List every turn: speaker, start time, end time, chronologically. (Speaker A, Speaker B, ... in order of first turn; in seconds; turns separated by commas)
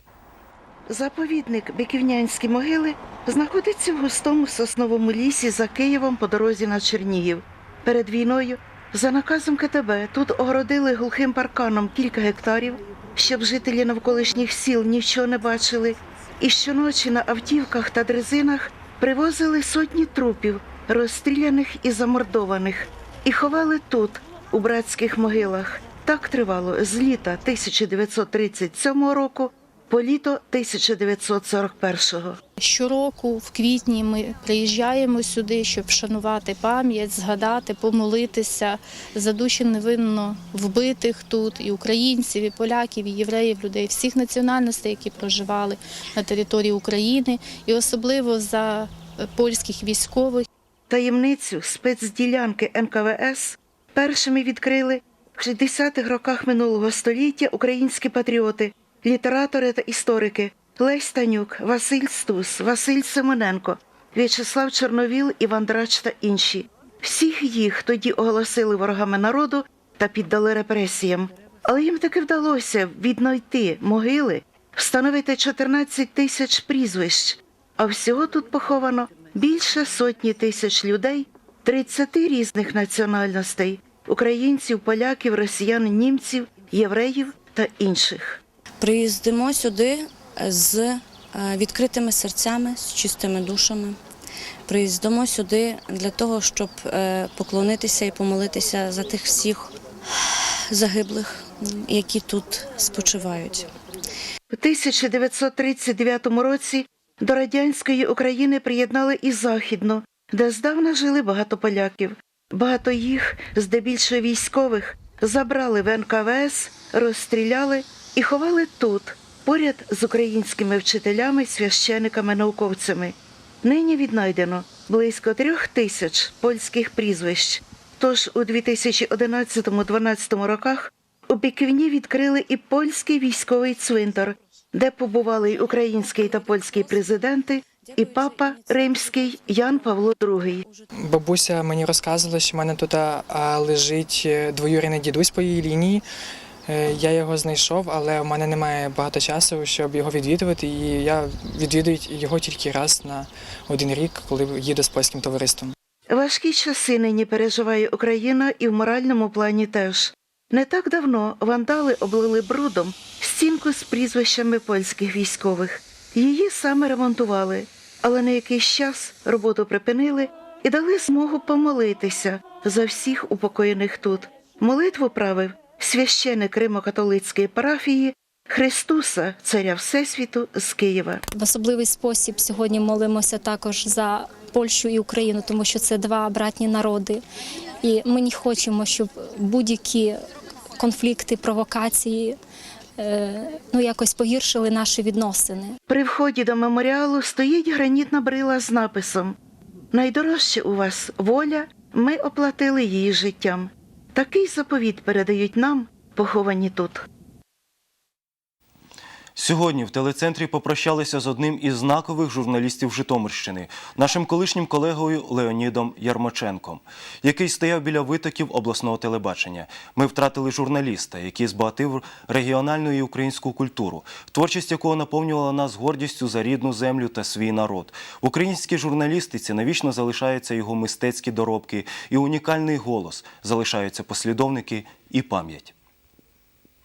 Speaker A: 0.9-32.4, Speaker B: 32.6-50.5, Speaker A: 50.9-88.4, Speaker C: 88.8-94.0, Speaker C: 94.7-99.7, Speaker C: 100.7-103.7, Speaker A: 104.5-140.6, Speaker D: 141.0-146.0, Speaker D: 146.7-155.7, Speaker A: 156.1-181.2, Speaker B: 181.3-187.2, Speaker B: 187.8-190.2, Speaker B: 190.8-192.4, Speaker B: 193.0-195.8, Speaker A: 195.9-199.3, Speaker A: 199.9-207.0, Speaker E: 209.4-235.7